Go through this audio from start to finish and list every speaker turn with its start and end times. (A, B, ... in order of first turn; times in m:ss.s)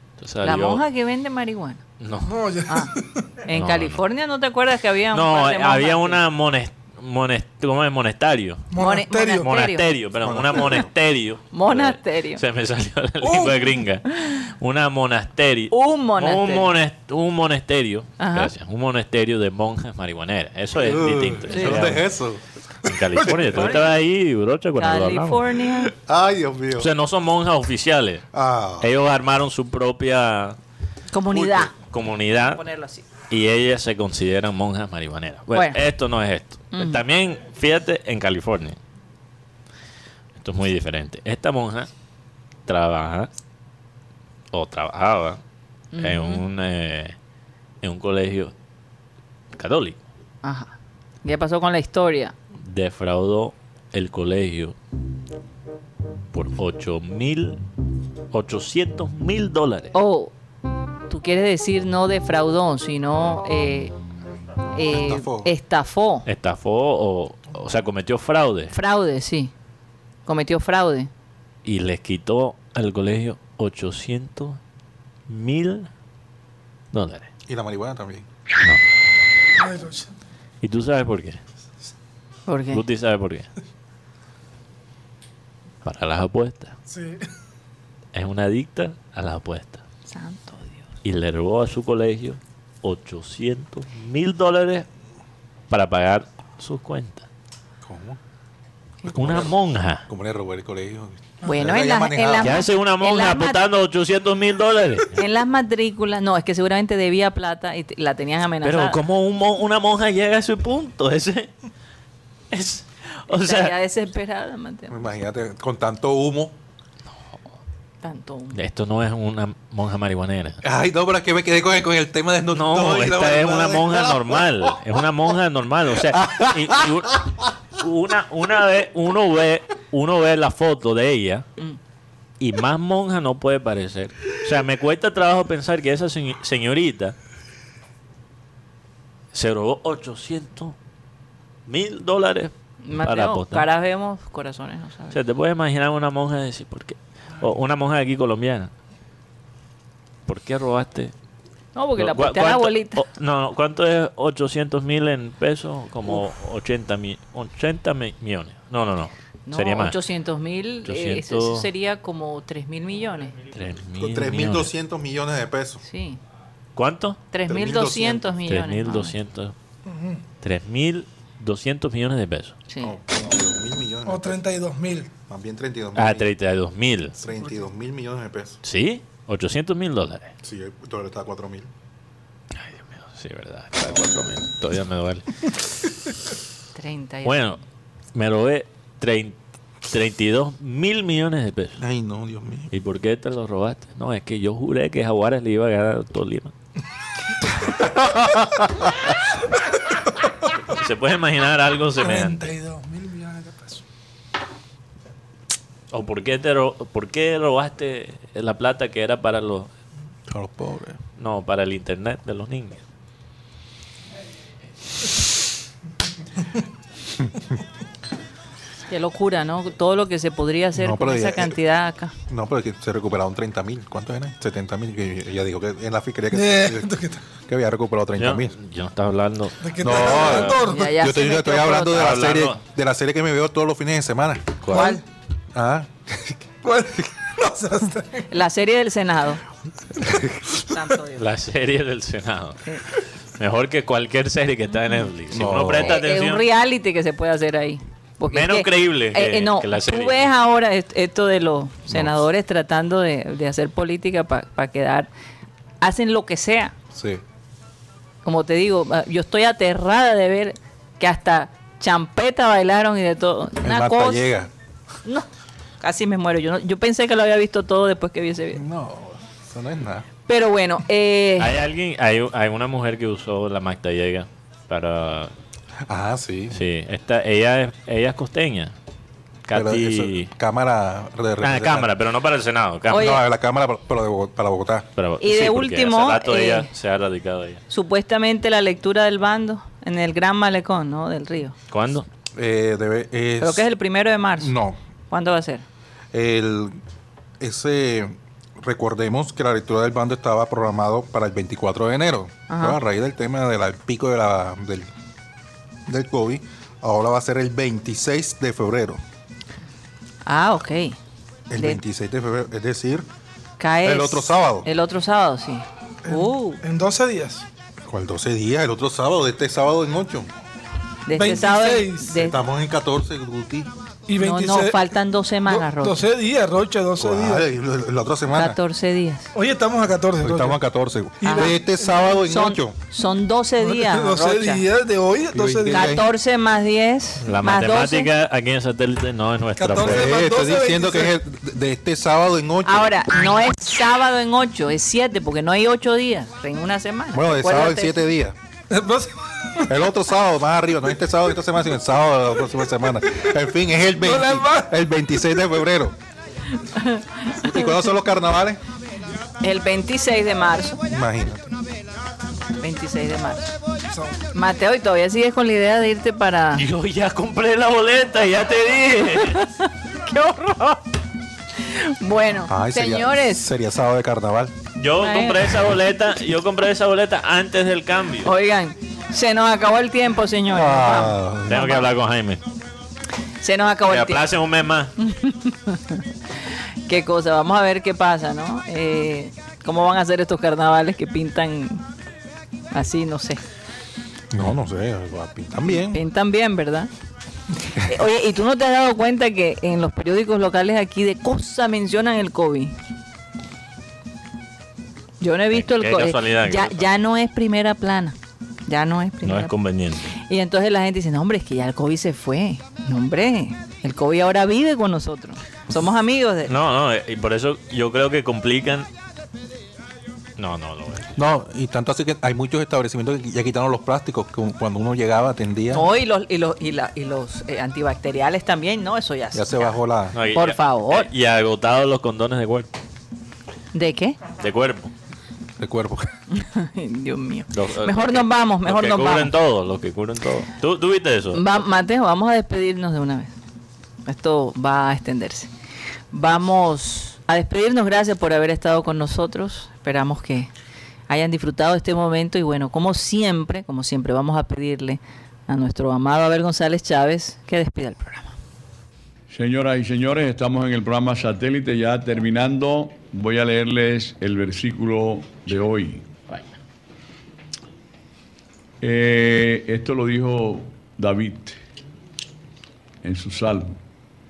0:00.2-0:00.8 A
0:00.4-0:01.8 B
0:02.0-0:02.4 A
0:02.2-0:03.3 C
0:02.7-0:02.9 B
0:03.4-0:06.2 B
0:03.5-0:04.0 A
0:05.1-0:08.8 A
0:08.7-0:09.5 C
0:08.8-0:09.9 B
0:09.3-0:22.0 A
0:10.2-0:10.9 D
0:11.5-0:12.4 B
0:13.2-0:13.6 C
0:15.7-0:16.7 B
0:18.2-0:18.5 B
0:20.7-0:23.7 D
0:21.5-0:21.8 B
0:22.8-0:25.8 A
0:23.5-0:23.9 B
0:24.8-0:25.9 B
0:26.0-0:26.9 D
0:26.8-0:28.2 A
0:28.3-0:28.9 D
0:28.8-0:30.6 A
0:31.1-0:31.7 B
0:31.3-0:32.6 A
0:32.6-0:33.0 B
0:33.3-0:38.8 A
0:35.5-0:35.8 B
0:36.7-0:37.0 B
0:40.4-0:41.9 A
0:42.7-0:43.3 A
0:44.5-0:45.4 A
0:45.9-0:46.4 B
0:46.0-0:47.1 A
0:47.8-0:48.5 A
0:49.5-0:50.0 A
0:50.4-0:52.3 B
0:52.6-0:54.7 A
0:56.3-0:57.6 A
0:58.3-0:59.9 A
0:59.9-1:00.3 B
1:01.1-1:03.9 B
1:04.7-1:06.2 B
1:04.8-1:05.5 D
1:06.2-1:08.7 A
1:08.7-1:09.5 B
1:10.2-1:11.1 B
1:11.6-1:14.6 A
1:15.3-1:15.9 A
1:16.9-1:17.3 A
1:17.5-1:18.2 D
1:19.6-1:20.1 C
1:20.6-1:21.4 A
1:22.5-1:22.8 B
1:22.7-1:23.5 A
1:25.8-1:26.7 A
1:26.9-1:27.2 C
1:28.1-1:29.8 A
1:30.1-1:30.8 B
1:31.0-1:34.8 A
1:35.7-1:37.2 A
1:37.8-1:38.2 D
1:39.0-1:39.5 D
1:39.1-1:40.0 A
1:40.1-1:42.6 D
1:41.4-1:43.6 B
1:42.4-1:45.2 A
1:45.1-1:49.0 B
1:48.6-1:51.5 A
1:52.5-1:53.7 A
1:53.4-1:55.1 B
1:54.9-1:56.5 D
1:58.0-1:58.6 B
1:58.5-2:00.6 A
2:00.6-2:04.7 D
2:02.5-2:11.4 A
2:06.0-2:07.4 D
2:12.4-2:17.1 A
2:19.3-2:20.8 A
2:21.7-2:23.6 A
2:22.8-2:25.2 B
2:25.1-2:28.7 A
2:30.3-2:31.1 A
2:31.7-2:33.0 B
2:32.0-2:40.0 A
2:39.5-2:43.4 B
2:40.8-2:41.7 A
2:43.5-2:44.7 A
2:44.0-2:45.8 D
2:45.8-2:46.2 B
2:46.8-2:47.2 A
2:47.3-2:49.2 B
2:47.5-2:48.3 D
2:48.5-2:49.5 A
2:49.8-2:50.2 C
2:50.4-2:52.6 A
2:52.8-2:54.4 D
2:54.0-2:55.1 C
2:55.3-2:56.3 D
2:56.0-2:57.2 A
2:57.2-2:58.6 D
2:58.6-3:00.3 A
3:00.4-3:01.7 D
3:02.6-3:05.6 A
3:06.7-3:07.6 B
3:07.2-3:07.6 A
3:08.1-3:11.8 A
3:11.8-3:12.7 D
3:12.7-3:16.5 A
3:20.7-3:22.5 A
3:22.0-3:23.8 C
3:25.9-3:29.7 A
3:30.3-3:31.0 D
3:31.2-3:32.8 A
3:38.9-3:42.1 B
3:40.7-3:41.6 D
3:42.3-3:48.6 D
3:46.3-3:47.2 C
3:48.2-3:50.4 A
3:49.6-3:50.9 C
3:49.8-3:54.7 D
3:50.0-3:52.0 B
3:51.9-3:52.6 A
3:54.6-3:55.0 A
3:54.7-3:55.0 B
3:54.7-3:55.0 C
3:55.5-3:56.4 D
3:56.6-3:58.3 C
3:58.3-3:59.4 B
4:00.0-4:00.6 D
4:00.7-4:01.2 B
4:01.2-4:02.6 A
4:03.4-4:06.4 A
4:05.3-4:06.0 D
4:05.8-4:15.1 B
4:08.3-4:10.3 A
4:11.9-4:12.2 D
4:15.8-4:16.7 B
4:16.9-4:17.2 D
4:18.2-4:24.2 B
4:23.6-4:24.5 D
4:25.8-4:28.6 B
4:28.5-4:30.0 D
4:30.3-4:31.6 B
4:31.4-4:35.3 A
4:35.9-4:36.6 D
4:36.5-4:38.7 A
4:39.4-4:40.3 A
4:39.5-4:41.9 D
4:41.4-4:43.2 A
4:42.9-4:44.9 D
4:42.9-4:43.2 B
4:45.0-4:47.6 A
4:45.2-4:46.7 B
4:47.7-4:51.5 B
4:51.7-4:52.0 A
4:52.4-4:53.7 D
4:53.4-4:54.5 B
4:54.4-4:54.8 D
4:55.1-4:55.6 B
4:56.1-4:56.8 D
4:57.4-5:04.9 D
5:02.5-5:02.8 B
5:05.8-5:09.0 D
5:10.2-5:11.0 B
5:11.5-5:13.0 D
5:13.6-5:16.6 B
5:13.8-5:14.7 D
5:16.0-5:17.4 C
5:17.8-5:20.3 D
5:21.0-5:22.4 B
5:21.1-5:22.2 C
5:22.2-5:23.7 D
5:24.1-5:24.9 C
5:24.2-5:26.0 B
5:25.5-5:27.4 C
5:27.0-5:28.6 D
5:28.3-5:29.3 B
5:29.3-5:30.6 C
5:30.2-5:32.8 D
5:31.2-5:31.6 B
5:31.2-5:32.1 C
5:32.2-5:34.6 B
5:33.6-5:36.0 C
5:35.3-5:36.1 D
5:35.7-5:38.1 B
5:37.2-5:40.1 A
5:39.6-5:41.1 C
5:39.8-5:42.9 D
5:42.6-5:48.0 B
5:47.1-5:48.3 D
5:48.7-5:49.7 C
5:49.7-5:56.0 D
5:54.0-5:54.8 C
5:56.6-5:57.6 B
5:57.3-5:58.6 D
5:59.4-6:00.8 B
6:00.9-6:01.6 D
6:02.6-6:03.5 B
6:03.9-6:04.2 C
6:04.3-6:06.6 B
6:06.5-6:09.4 A
6:09.2-6:10.8 B
6:11.6-6:13.5 B
6:12.5-6:14.5 D
6:14.8-6:18.3 A
6:15.0-6:15.5 B
6:18.2-6:21.9 B
6:20.5-6:21.6 D
6:21.5-6:22.4 A
6:23.4-6:24.3 B
6:23.9-6:24.9 A
6:25.0-6:26.0 B
6:26.9-6:31.8 B
6:32.7-6:33.4 B
6:34.3-6:36.0 D
6:35.6-6:36.9 B
6:37.7-6:42.7 B
6:45.2-6:48.2 B
6:45.5-6:46.8 A
6:48.7-6:49.5 B
6:49.2-6:50.1 A
6:50.1-6:56.5 B
6:56.5-6:58.9 A
7:00.4-7:01.1 A
7:01.2-7:05.9 D
7:05.7-7:09.8 B
7:09.3-7:10.2 D
7:10.1-7:12.7 A
7:10.3-7:11.1 B
7:13.7-7:14.2 B
7:14.4-7:14.9 A
7:15.6-7:16.1 D
7:16.3-7:19.3 B
7:17.5-7:21.4 A
7:21.3-7:23.3 B
7:24.0-7:25.5 B
7:26.1-7:30.5 B
7:31.1-7:38.3 B
7:39.3-7:46.5 E
7:48.8-7:51.6 E
7:53.0-7:53.8 E